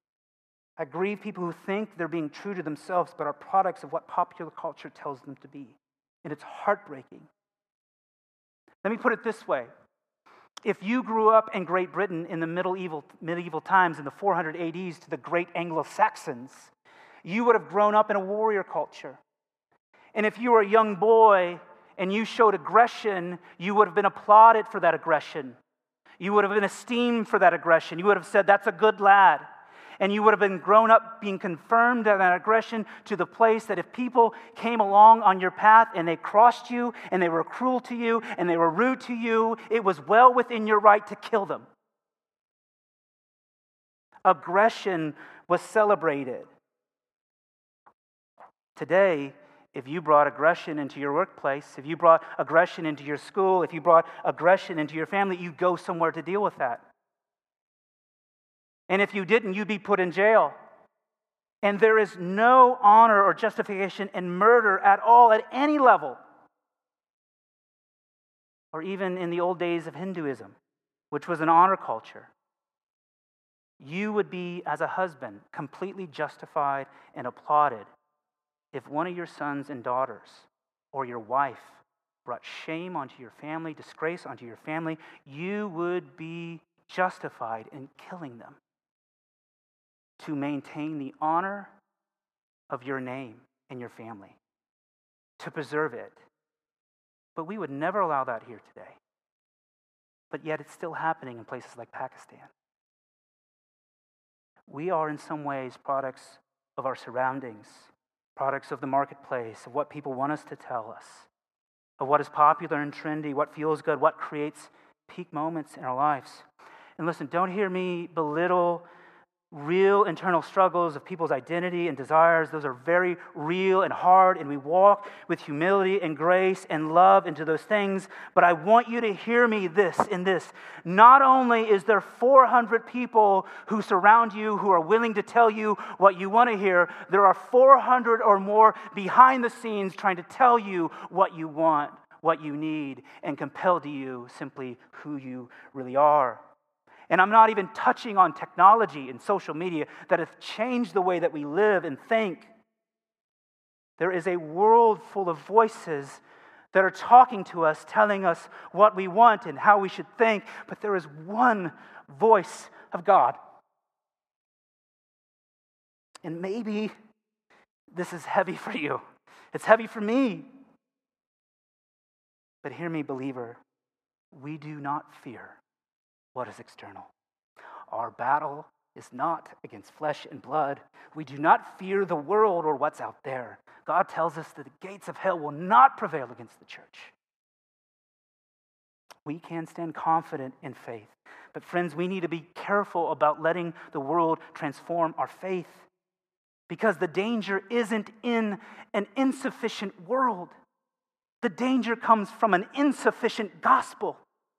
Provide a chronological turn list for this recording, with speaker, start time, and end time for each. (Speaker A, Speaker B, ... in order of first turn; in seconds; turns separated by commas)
Speaker A: 0.8-7.3, Speaker A: 8.8-9.7, Speaker A: 10.6-16.7, Speaker A: 17.2-19.2, Speaker A: 20.1-25.6, Speaker A: 26.2-29.5, Speaker A: 30.0-41.7, Speaker A: 44.2-46.5, Speaker A: 48.8-56.9, Speaker A: 58.9-60.5, Speaker A: 61.6-66.2, Speaker A: 68.7-70.6, Speaker A: 71.1-72.3, Speaker A: 73.8-77.9, Speaker A: 78.7-88.6, Speaker A: 90.2-91.7, Speaker A: 92.7-94.4, Speaker A: 95.4-96.2, Speaker A: 97.4-99.0, Speaker A: 100.3-102.5, Speaker A: 104.7-111.3, Speaker A: 112.0-116.5, Speaker A: 117.0-118.8, Speaker A: 119.5-146.4, Speaker A: 147.1-152.5, Speaker A: 154.0-163.4, Speaker A: 166.2-166.9, Speaker A: 167.9-170.5, Speaker A: 172.6-173.6, Speaker A: 174.3-175.6, Speaker A: 176.3-177.1, Speaker A: 177.9-187.1, Speaker A: 189.3-195.9, Speaker A: 196.7-200.5, Speaker A: 201.4-204.2